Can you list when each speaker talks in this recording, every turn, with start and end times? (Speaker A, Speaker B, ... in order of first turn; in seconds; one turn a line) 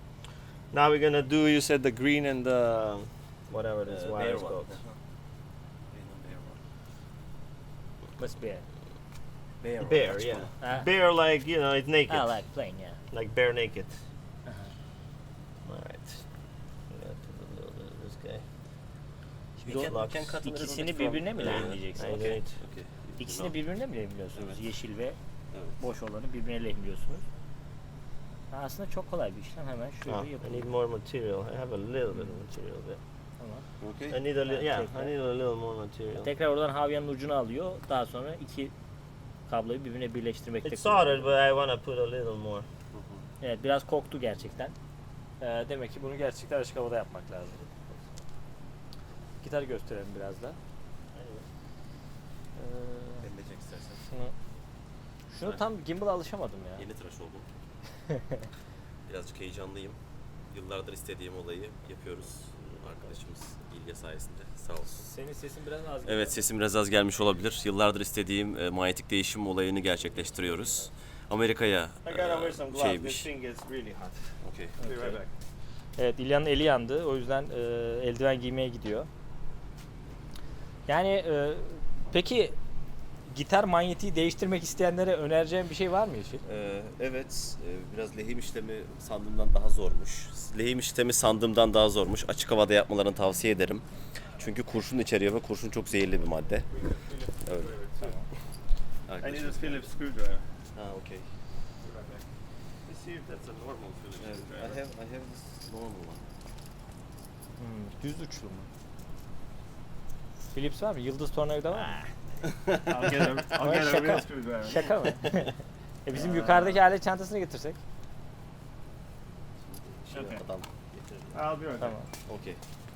Speaker A: 0.7-4.8
Speaker B: 3.8-5.0
Speaker B: 5.9-6.6
Speaker C: 8.2-8.7
Speaker B: 9.6-10.5
Speaker A: 9.8-12.6
Speaker C: 10.6-10.9
Speaker C: 12.1-13.0
Speaker A: 13.1-14.0
Speaker C: 14.4-14.7
Speaker A: 15.7-18.5
Speaker C: 19.6-22.4
Speaker B: 19.6-23.6
Speaker A: 19.8-20.4
Speaker A: 21.4-22.6
Speaker C: 23.2-25.2
Speaker B: 24.4-24.6
Speaker B: 25.5-25.8
Speaker C: 25.7-27.2
Speaker C: 28.5-30.7
Speaker A: 30.1-33.0
Speaker C: 33.4-33.7
Speaker B: 33.8-34.2
Speaker A: 34.1-36.3
Speaker C: 34.5-35.1
Speaker C: 36.1-38.7
Speaker C: 39.5-41.3
Speaker A: 40.6-42.7
Speaker B: 42.9-43.2
Speaker C: 43.4-44.8
Speaker C: 45.4-47.7
Speaker C: 49.4-50.6
Speaker A: 51.1-51.5
Speaker C: 52.6-53.3
Speaker B: 53.2-54.1
Speaker C: 55.3-56.9
Speaker B: 55.4-55.6
Speaker B: 56.8-57.5
Speaker B: 59.1-60.0
Speaker B: 60.5-65.0
Speaker C: 64.9-66.5
Speaker B: 66.0-73.3
Speaker A: 70.1-70.5
Speaker A: 72.0-75.3
Speaker B: 74.4-74.8
Speaker C: 74.8-75.2
Speaker C: 76.0-79.1
Speaker C: 80.9-82.6
Speaker C: 83.3-86.4
Speaker B: 86.4-96.9
Speaker A: 96.7-98.2
Speaker B: 97.4-97.7
Speaker C: 98.0-98.3
Speaker B: 99.1-99.9
Speaker A: 99.2-100.5
Speaker B: 100.7-101.3
Speaker A: 101.8-102.3
Speaker A: 102.8-104.8
Speaker B: 104.2-106.3
Speaker C: 107.6-108.7
Speaker C: 110.5-112.0
Speaker A: 111.7-115.4
Speaker C: 113.5-117.8
Speaker A: 116.1-116.8
Speaker B: 119.7-121.5
Speaker A: 120.1-120.4
Speaker A: 121.3-122.0
Speaker C: 121.8-122.1
Speaker B: 122.3-122.6